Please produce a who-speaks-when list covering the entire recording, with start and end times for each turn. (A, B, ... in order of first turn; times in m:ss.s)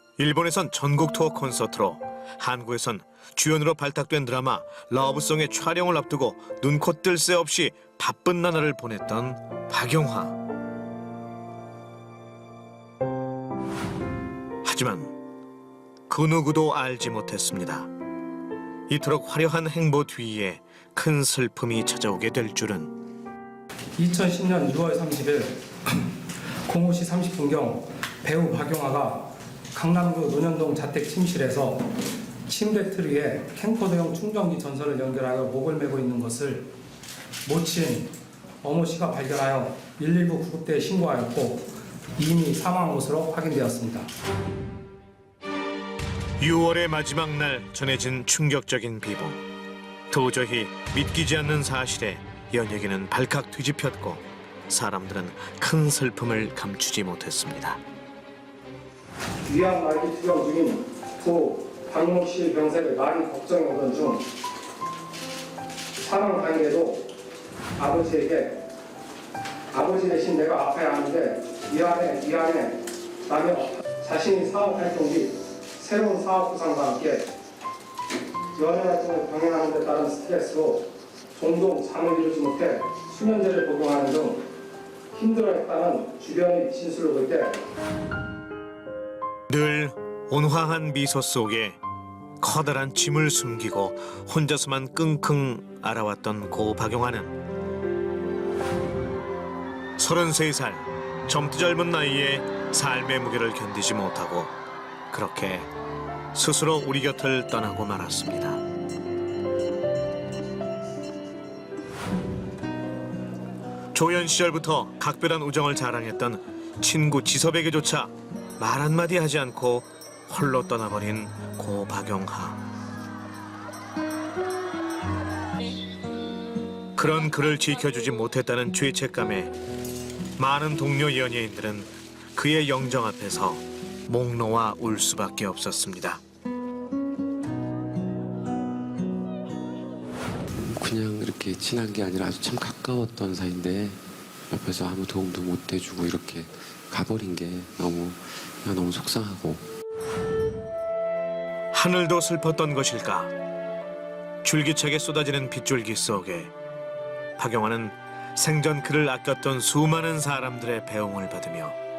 0:00.2-0:10.4 A
0:14.6-0:15.1 A
0:16.1-0:17.9 A
0:18.9-0:22.9 A
0:24.0-0:26.1 B
0:26.6-0:31.9 B
0:32.5-0:36.7 B
0:37.4-0:44.1 B
0:46.4-0:49.4 A
0:50.1-0:57.8 A
0:59.5-1:04.3 B
1:06.0-1:07.1 B
1:07.8-1:08.6 B
1:09.7-1:17.3 B
1:18.5-1:24.4 B
1:25.1-1:27.6 B
1:29.5-1:31.8 A
1:32.4-1:37.3 A
1:40.0-1:44.5 A
1:45.1-1:45.7 A
1:46.3-1:48.6 A
1:53.9-2:02.6 A
2:07.0-2:09.5 A
2:10.4-2:16.2 A
2:20.6-2:29.6 C
2:31.7-2:33.3 A
2:34.4-2:36.5 A
2:37.4-2:41.8 A